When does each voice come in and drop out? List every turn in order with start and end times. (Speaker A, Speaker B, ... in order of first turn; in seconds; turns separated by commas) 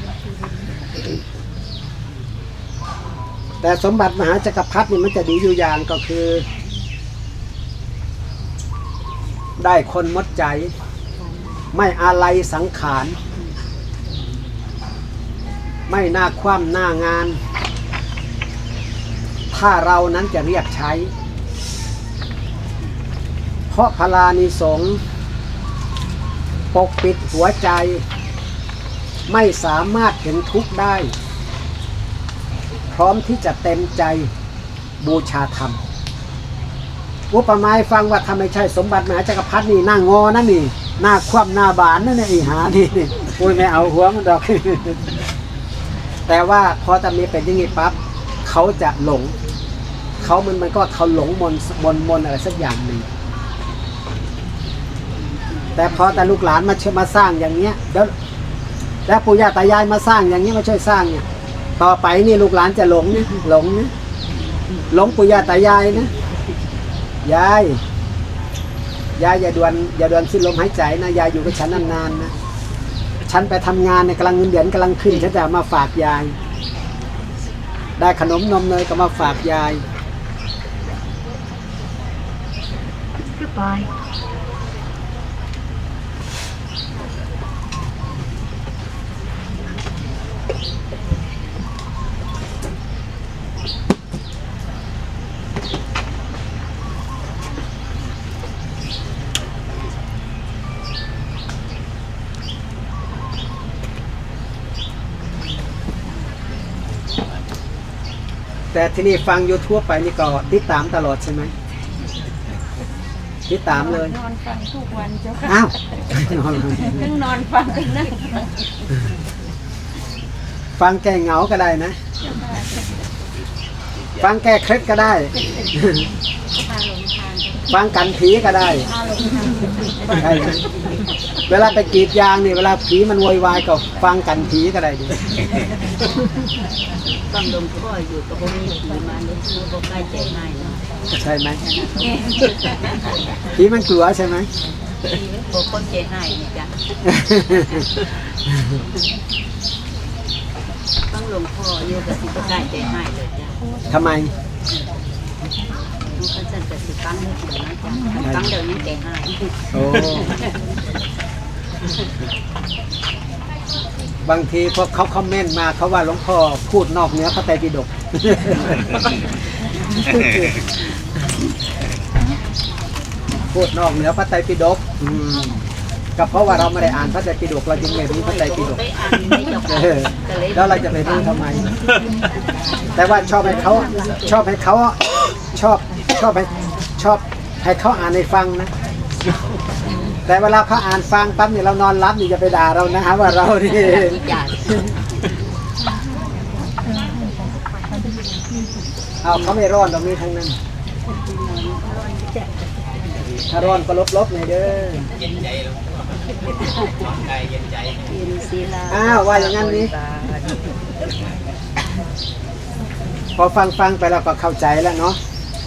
Speaker A: 3.6-6.5, Speaker A: 9.6-10.7, Speaker A: 11.7-13.2, Speaker A: 15.9-17.4, Speaker A: 19.5-21.1, Speaker A: 23.7-25.0, Speaker A: 26.7-28.0, Speaker A: 29.3-31.1, Speaker A: 32.9-34.3, Speaker A: 35.0-35.8, Speaker A: 37.3-45.1, Speaker A: 46.3-49.3, Speaker A: 50.2-53.1, Speaker A: 55.8-58.1, Speaker A: 59.1-61.2, Speaker A: 61.8-63.9, Speaker A: 64.9-66.1, Speaker A: 67.2-67.8, Speaker A: 69.2-72.3, Speaker A: 73.3-76.3, Speaker A: 78.0-79.8, Speaker A: 108.7-111.5, Speaker A: 113.5-114.2, Speaker B: 114.0-115.5, Speaker A: 115.4-117.0, Speaker B: 116.8-118.5, Speaker A: 120.8-122.0, Speaker B: 122.2-122.8, Speaker A: 124.2-126.0, Speaker B: 126.5-127.6, Speaker A: 127.7-128.9, Speaker B: 128.9-130.1, Speaker A: 130.1-130.6, Speaker A: 131.5-135.2, Speaker C: 137.3-140.8, Speaker A: 141.1-141.6, Speaker C: 141.6-143.1, Speaker A: 143.5-144.5, Speaker C: 145.1-146.7, Speaker A: 147.0-147.8, Speaker C: 151.1-153.6, Speaker A: 153.9-154.3, Speaker C: 156.2-160.4, Speaker A: 158.2-158.5, Speaker A: 159.7-160.4, Speaker A: 164.3-168.9, Speaker A: 169.9-170.6, Speaker A: 173.5-175.6, Speaker A: 176.2-178.8, Speaker C: 177.9-181.2, Speaker A: 179.6-181.7, Speaker A: 182.9-188.7, Speaker A: 190.2-194.9, Speaker C: 193.7-194.8, Speaker A: 199.2-200.6, Speaker C: 201.1-202.5, Speaker A: 203.5-205.1, Speaker C: 206.6-210.7, Speaker A: 208.9-209.9, Speaker A: 213.4-215.2